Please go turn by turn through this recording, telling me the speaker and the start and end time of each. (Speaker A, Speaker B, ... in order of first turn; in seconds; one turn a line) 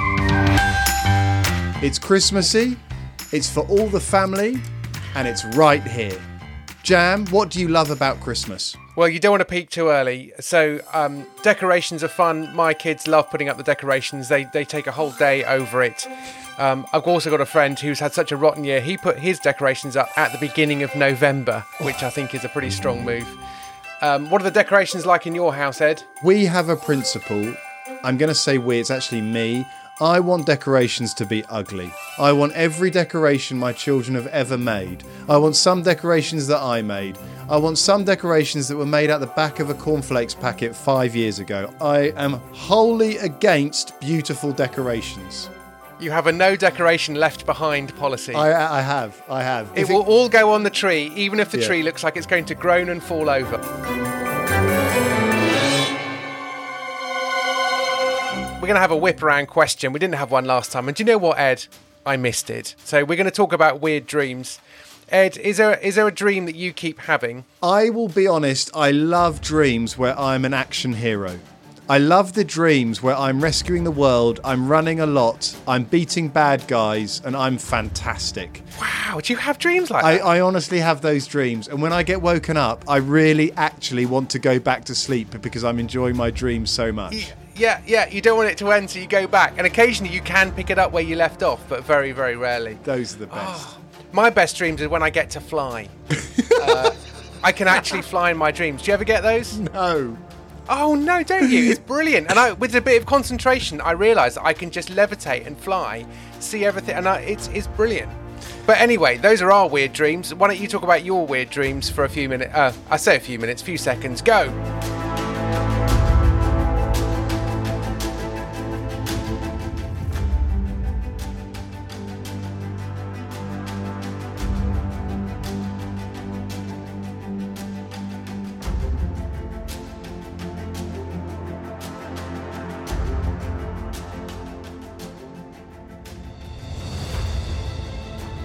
Speaker A: 1.8-6.3
Speaker A: 6.8-8.8
Speaker B: 8.9-23.4
Speaker B: 24.0-26.0
Speaker A: 26.2-45.5
Speaker B: 46.0-48.5
Speaker A: 48.3-50.0
Speaker B: 49.8-53.6
Speaker B: 58.6-64.6
Speaker B: 65.1-67.5
Speaker A: 67.6-78.6
Speaker B: 78.8-80.2
Speaker A: 80.0-87.3
Speaker B: 87.1-99.6
Speaker A: 92.8-93.7
Speaker A: 96.3-96.9
Speaker A: 99.5-100.2
Speaker B: 100.7-114.5
Speaker A: 101.4-101.8